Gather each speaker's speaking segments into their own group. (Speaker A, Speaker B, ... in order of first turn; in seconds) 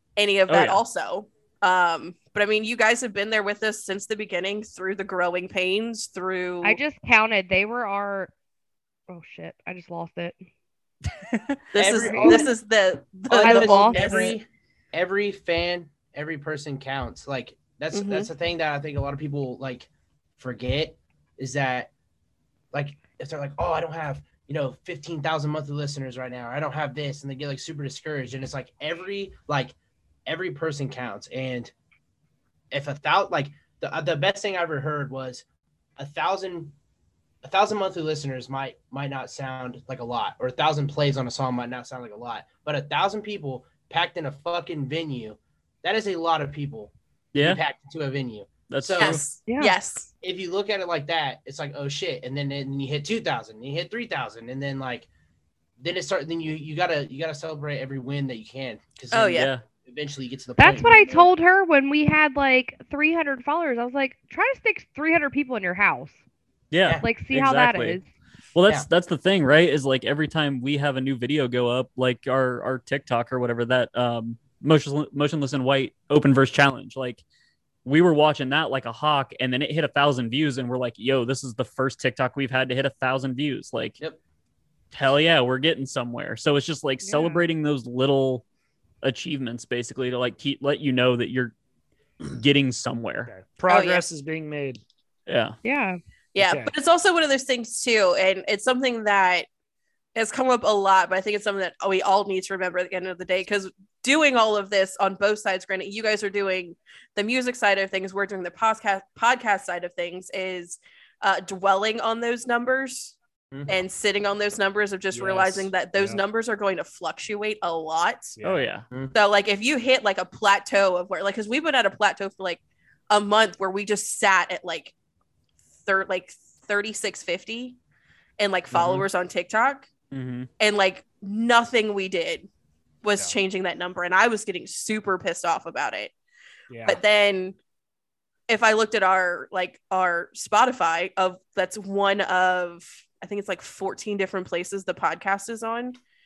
Speaker A: 0.1-6.8, 11.7-14.3, 17.9-18.3, 49.0-50.1, 59.1-59.5, 93.7-94.0, 96.3-99.5, 100.1-113.2, 113.7-118.4, 119.1-124.9, 125.8-127.8, 128.4-129.9, 130.6-132.5, 133.0-136.1, 136.8-137.6, 138.5-146.0
Speaker B: 0.5-0.8, 11.3-11.6, 47.3-47.6, 48.7-49.2, 59.3-59.6, 66.7-68.0, 68.5-77.2, 77.8-84.0, 84.9-88.4, 89.0-91.5, 92.2-93.3, 95.3-95.5, 118.4-118.8, 130.1-130.5
Speaker C: 6.6-8.3, 9.1-10.4, 12.1-12.4, 13.4-14.3, 49.5-49.8, 60.6-66.2, 67.0-68.0, 87.0-87.4, 95.6-96.0
Speaker D: 11.8-12.5, 13.3-21.9, 22.7-29.7, 30.2-31.7, 32.7-35.4, 36.0-36.7, 37.4-49.2, 50.2-55.1, 55.8-61.3, 113.5-113.8
Speaker E: 93.2-94.8, 96.4-96.7, 115.1-116.2, 118.4-118.7, 136.7-137.0